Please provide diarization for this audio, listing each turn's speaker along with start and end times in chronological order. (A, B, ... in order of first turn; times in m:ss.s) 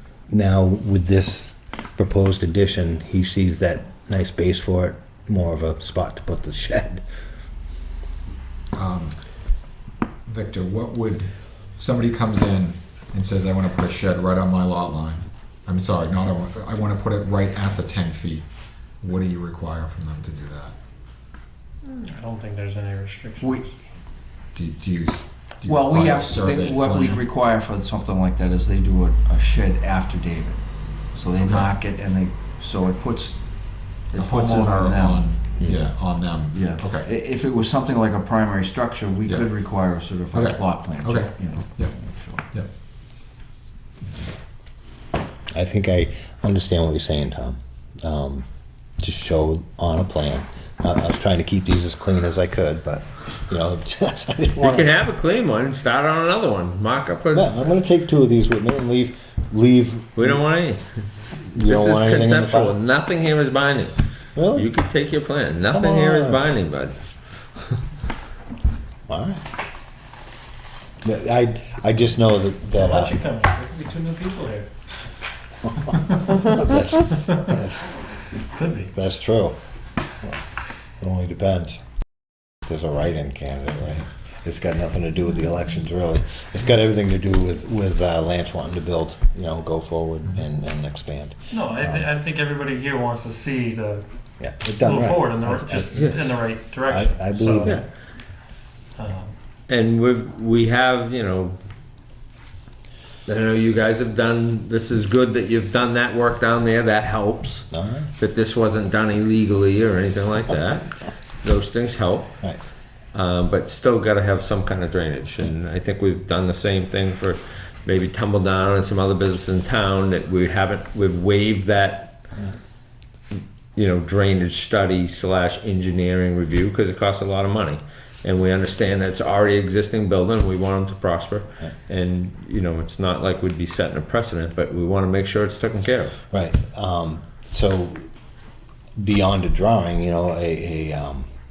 0:00.3-0:07.0 A
0:08.7-0:09.1 B
0:10.3-0:18.4 B
0:19.0-0:20.7 B
0:21.9-0:23.6 C
0:23.4-0:23.7 D
0:24.5-0:27.2 B
0:25.6-0:30.6 D
0:31.1-0:35.3 D
0:31.3-0:31.7 B
0:34.1-0:37.1 B
0:36.5-0:42.5 D
0:40.3-0:41.9 B
0:45.5-0:48.4 A
0:49.0-0:54.9 A
0:54.6-0:57.6 E
0:57.3-1:00.4 A
1:00.2-1:00.8 E
1:01.5-1:02.8 A
1:01.6-1:03.9 E
1:04.4-1:04.7 A
1:04.5-1:07.0 E
1:05.7-1:06.4 A
1:09.1-1:09.4 A
1:11.0-1:13.2 A
1:12.7-1:14.7 C
1:16.2-1:17.9 A
1:18.5-1:18.9 C
1:18.9-1:19.6 A
1:21.0-1:21.8 A
1:22.6-1:32.1 A
1:31.5-1:34.0 C
1:34.4-1:36.2 A
1:34.8-1:37.8 C
1:36.9-1:37.8 A
1:39.0-1:39.3 C
1:39.7-1:41.6 E
1:43.2-1:52.3 E
1:47.7-1:48.1 A
1:53.1-2:02.2 E
2:03.3-2:16.2 E
2:16.3-2:18.0 A
2:19.0-2:21.2 A